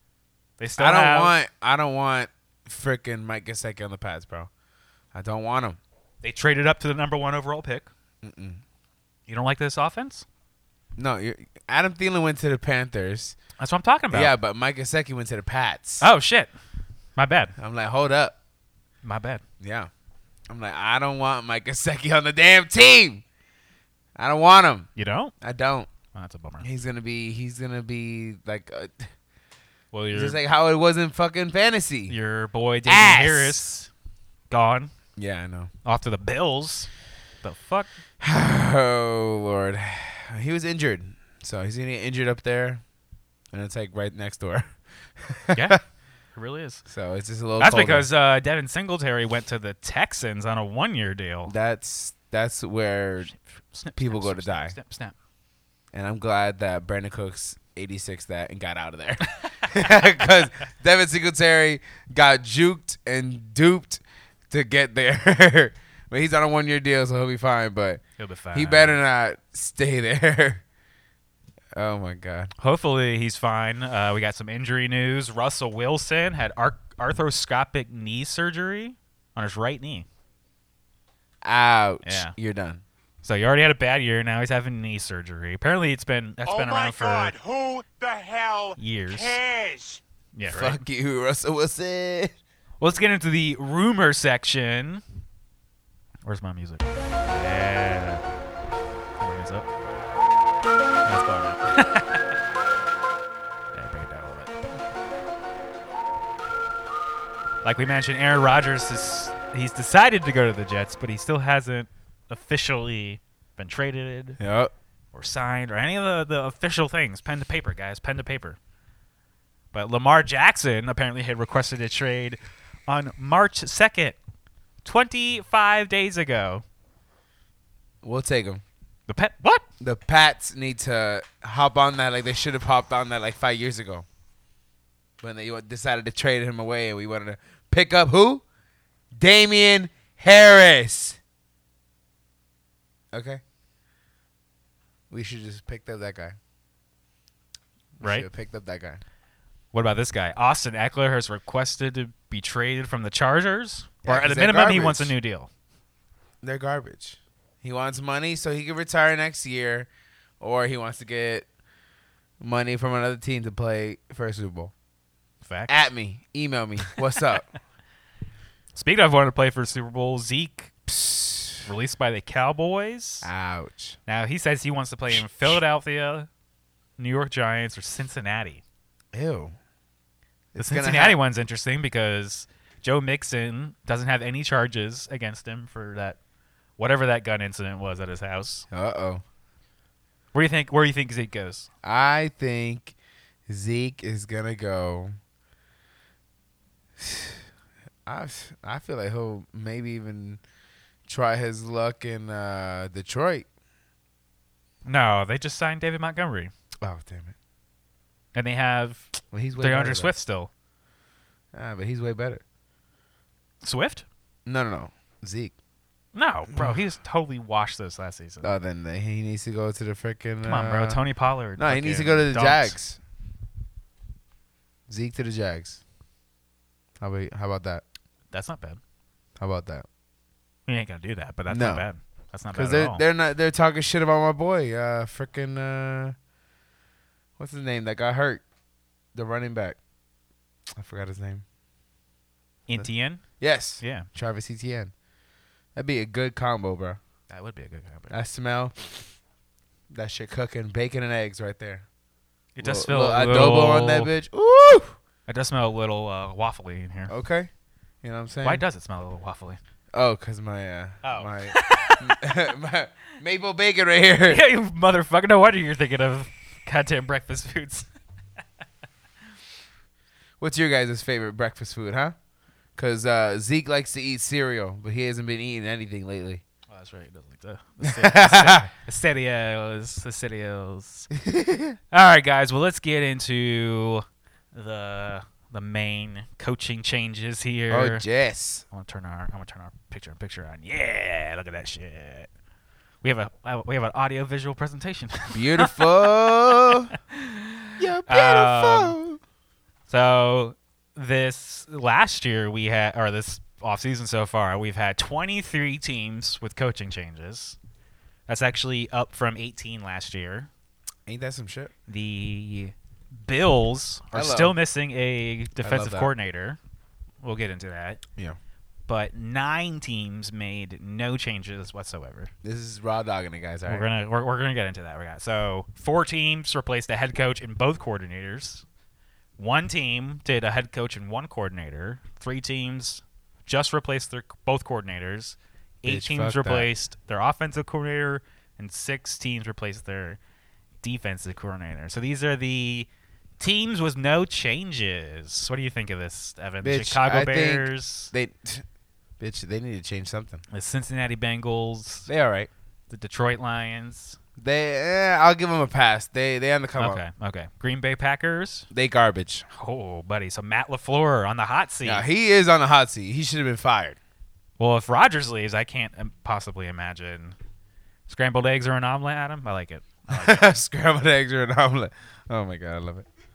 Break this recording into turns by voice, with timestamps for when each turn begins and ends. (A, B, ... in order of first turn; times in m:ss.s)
0:00.6-0:01.4 A
0:00.8-0:04.5 B
0:05.1-0:05.8 B
0:06.2-0:07.9 A
0:08.2-0:08.6 B
0:09.3-0:10.2 A
0:11.0-0:13.4 B
0:13.6-0:14.3 A
0:14.1-0:16.0 B
0:16.0-0:16.5 A
0:17.2-0:17.5 A
0:17.6-0:18.4 B
0:19.0-0:19.4 A
0:19.6-0:19.9 B
0:20.5-0:23.2 B
0:24.2-0:24.9 B
0:25.0-0:25.3 A
0:25.4-0:25.9 B
0:26.1-0:26.6 A
0:26.6-0:29.1 B
0:29.9-0:30.4 A
0:30.1-0:32.2 B
0:32.1-0:33.9 A
0:32.9-0:33.6 B
0:34.5-0:34.9 A
0:35.2-0:35.7 B
0:35.8-0:36.9 A
0:37.4-0:37.9 A
0:38.2-0:42.8 B
0:43.5-0:45.8 B
0:45.5-0:45.8 A
0:46.3-0:46.8 A
0:46.9-0:48.1 B
0:47.6-0:51.5 A
0:51.5-0:53.3 B
0:53.4-0:55.1 A
0:54.0-0:54.7 B
0:55.9-1:08.0 B
1:08.2-1:09.0 A
1:08.5-1:10.6 B
1:11.7-1:12.5 B
1:12.6-1:20.1 A
1:21.4-1:22.8 B
1:22.0-1:22.3 A
1:23.2-1:27.3 A
1:26.4-1:30.0 C
1:28.8-1:29.4 A
1:30.3-1:30.8 A
1:30.5-1:32.3 B
1:32.8-1:35.0 A
1:36.2-1:38.2 A
1:39.2-1:39.7 A
1:41.0-1:42.2 A
1:43.7-1:44.6 A
1:47.6-1:54.4 A
1:54.4-1:54.7 B
1:55.1-1:58.6 A
1:59.7-2:04.2 A
2:04.8-2:06.6 A
2:08.0-2:08.6 B
2:09.1-2:09.6 A
2:09.8-2:14.0 B
2:15.2-2:18.4 B
2:19.2-2:21.2 B
2:23.1-2:23.4 B
2:25.1-2:26.4 B
2:28.0-2:29.0 B
2:28.0-2:28.3 A
2:29.7-2:35.5 A
2:34.0-2:35.1 B
2:36.4-2:39.9 B
2:40.4-2:41.5 B
2:42.4-2:44.7 B
2:45.4-2:45.8 A
2:45.7-2:47.5 B
2:48.7-2:50.7 A
2:50.9-2:51.7 B
2:51.6-2:53.3 A
2:53.2-2:54.0 B
2:54.1-2:56.3 A
2:57.0-2:58.6 A
2:59.1-2:59.5 B
3:00.5-3:01.2 B
3:00.6-3:06.2 A
3:06.8-3:08.7 A
3:08.7-3:09.2 B
3:10.3-3:11.7 A
3:11.8-3:12.9 B
3:13.5-3:15.1 B
3:17.0-3:17.4 B
3:18.0-3:20.4 B
3:21.1-3:23.5 B
3:24.8-3:26.5 A
3:26.8-3:27.3 B
3:28.3-3:30.5 A
3:29.3-3:30.1 B
3:31.5-3:32.4 B
3:33.6-3:34.0 A
3:34.4-3:35.5 B
3:36.1-3:38.5 A
3:36.5-3:36.8 B
3:38.4-3:41.0 B
3:40.4-3:42.8 A
3:41.6-3:43.0 B
3:44.9-3:45.8 B
3:47.0-3:47.8 B
3:48.3-3:48.8 A
3:49.4-3:49.8 B
3:50.7-3:53.0 A
3:51.5-3:51.8 B
3:52.5-3:56.2 B
3:57.4-3:58.4 B
3:59.1-3:59.8 B
4:00.7-4:01.4 B
4:02.7-4:03.2 A
4:03.4-4:04.9 B
4:03.8-4:04.1 A
4:05.8-4:07.0 B
4:07.3-4:08.1 A
4:08.1-4:09.0 B
4:09.9-4:11.8 B
4:12.6-4:14.1 A
4:12.6-4:15.0 B
4:15.3-4:17.1 A
4:17.1-4:17.5 B
4:18.0-4:18.6 B
4:18.4-4:19.6 A
4:19.9-4:24.4 B
4:21.0-4:22.4 A
4:24.3-4:27.9 A
4:30.4-4:32.2 B
4:32.8-4:36.4 B
4:36.7-4:41.1 A
4:37.8-4:38.7 B
4:41.1-4:41.8 B
4:41.9-4:48.0 A
4:47.7-4:48.6 B
4:48.7-4:52.3 A
4:53.0-4:59.0 A
4:55.3-4:56.9 B
4:57.8-4:59.2 B
4:59.9-5:07.6 A
5:08.3-5:10.5 A
5:11.0-5:11.7 B
5:11.9-5:16.6 A
5:14.1-5:14.6 B
5:15.6-5:16.1 B
5:17.2-5:18.0 A
5:18.9-5:22.3 A
5:22.4-5:23.9 B
5:23.7-5:28.6 A
5:29.4-5:40.2 A
5:35.8-5:36.7 B
5:40.8-5:48.1 A
5:46.6-5:48.6 B
5:49.2-5:50.4 B
5:50.5-5:52.1 A
5:52.1-5:52.5 B
5:52.9-5:54.2 A
5:54.4-5:57.0 B
5:56.8-5:58.7 A
5:58.7-5:59.4 B
5:59.5-6:02.0 A
6:01.8-6:04.0 B
6:04.6-6:07.4 A
6:08.1-6:10.5 A
6:10.1-6:13.0 B